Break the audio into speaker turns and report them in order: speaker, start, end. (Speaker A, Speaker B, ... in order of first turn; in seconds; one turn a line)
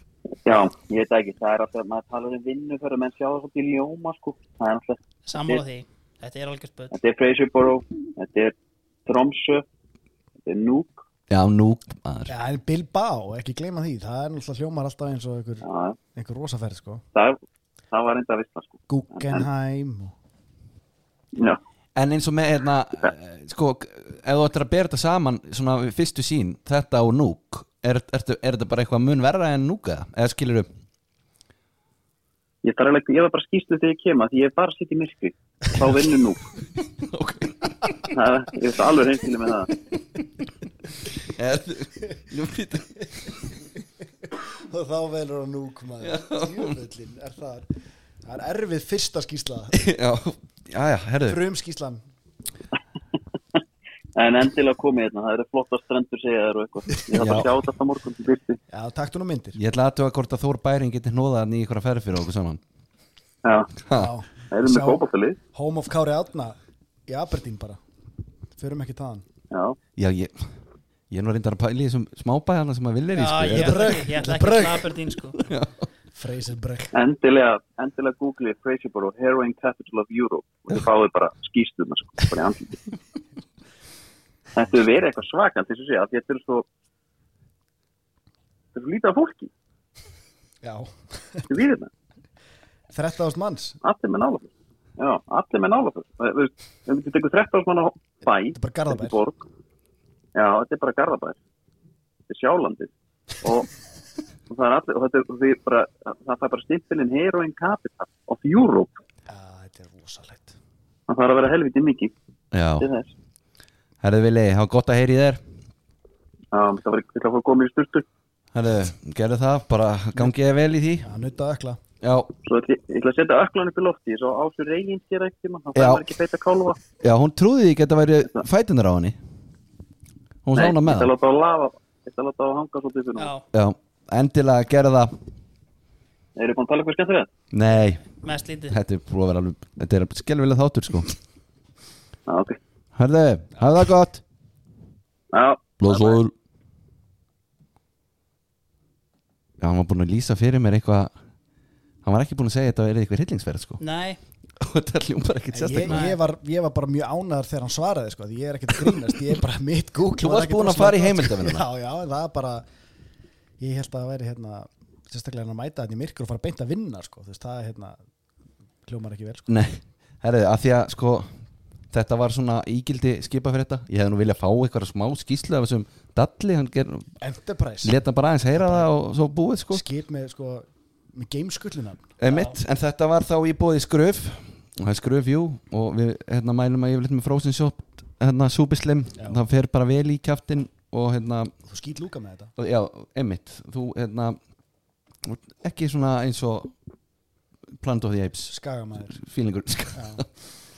Speaker A: 0.4-5.6
Speaker B: 5.2-7.0
Speaker A: 6.9-8.5
Speaker A: 9.1-9.6
Speaker A: 10.4-11.0
Speaker C: 11.3-12.3
Speaker D: 12.3-17.0
Speaker A: 15.6-16.0
Speaker A: 17.1-17.4
Speaker A: 17.9-19.5
Speaker D: 18.9-20.1
Speaker A: 21.3-21.6
Speaker C: 21.9-30.7
Speaker A: 32.6-36.4
Speaker C: 37.0-38.1
Speaker A: 38.1-39.7
Speaker C: 41.2-43.3
Speaker D: 44.2-49.8
Speaker C: 46.0-46.8
Speaker C: 49.7-51.4
Speaker D: 51.3-52.0
Speaker A: 54.1-58.6
Speaker C: 57.1-57.5
Speaker D: 58.7-59.6
Speaker C: 59.5-62.6
Speaker A: 63.4-63.7
Speaker C: 63.8-64.1
Speaker D: 63.9-65.0
Speaker A: 64.5-65.4
Speaker D: 65.5-67.8
Speaker D: 68.5-69.2
Speaker A: 69.5-69.8
Speaker C: 70.0-70.5
Speaker C: 71.1-74.1
Speaker B: 73.1-75.5
Speaker D: 73.5-74.9
Speaker C: 75.4-75.8
Speaker D: 76.1-76.9
Speaker A: 76.9-82.9
Speaker A: 84.5-86.7
Speaker A: 88.7-89.5
Speaker D: 90.6-91.5
Speaker A: 91.5-91.9
Speaker D: 92.9-93.8
Speaker A: 93.8-99.4
Speaker D: 98.5-99.2
Speaker A: 100.3-101.4
Speaker A: 102.3-103.7
Speaker A: 104.5-109.0
Speaker D: 109.3-110.5
Speaker A: 111.1-112.1
Speaker C: 112.5-112.9
Speaker A: 112.8-113.1
Speaker C: 114.0-115.4
Speaker A: 116.5-118.0
Speaker C: 118.5-121.1
Speaker D: 121.0-121.8
Speaker C: 122.0-122.3
Speaker A: 122.4-126.8
Speaker C: 125.7-126.1
Speaker C: 127.0-129.2
Speaker C: 130.4-131.1
Speaker A: 130.5-133.3
Speaker B: 133.2-133.4
Speaker C: 133.5-135.2
Speaker A: 136.3-137.3
Speaker C: 137.5-138.0
Speaker B: 138.0-138.8
Speaker C: 138.7-141.1
Speaker A: 142.3-142.6
Speaker C: 142.9-144.2
Speaker A: 145.3-146.2
Speaker C: 145.8-146.3
Speaker C: 149.6-151.1
Speaker C: 152.0-153.8
Speaker B: 153.8-154.2
Speaker C: 154.6-156.1
Speaker D: 155.5-162.6
Speaker B: 155.8-156.2
Speaker C: 160.2-161.6
Speaker D: 163.6-168.0
Speaker D: 168.8-169.5
Speaker C: 169.5-171.3
Speaker C: 171.9-177.1
Speaker D: 177.2-178.0
Speaker C: 177.8-179.8
Speaker D: 178.5-178.9
Speaker D: 179.7-182.1
Speaker C: 182.2-191.5
Speaker B: 182.2-182.6
Speaker D: 191.6-192.5
Speaker C: 192.6-194.4
Speaker C: 195.2-196.7
Speaker C: 197.8-200.3
Speaker D: 198.5-199.1
Speaker D: 199.9-200.2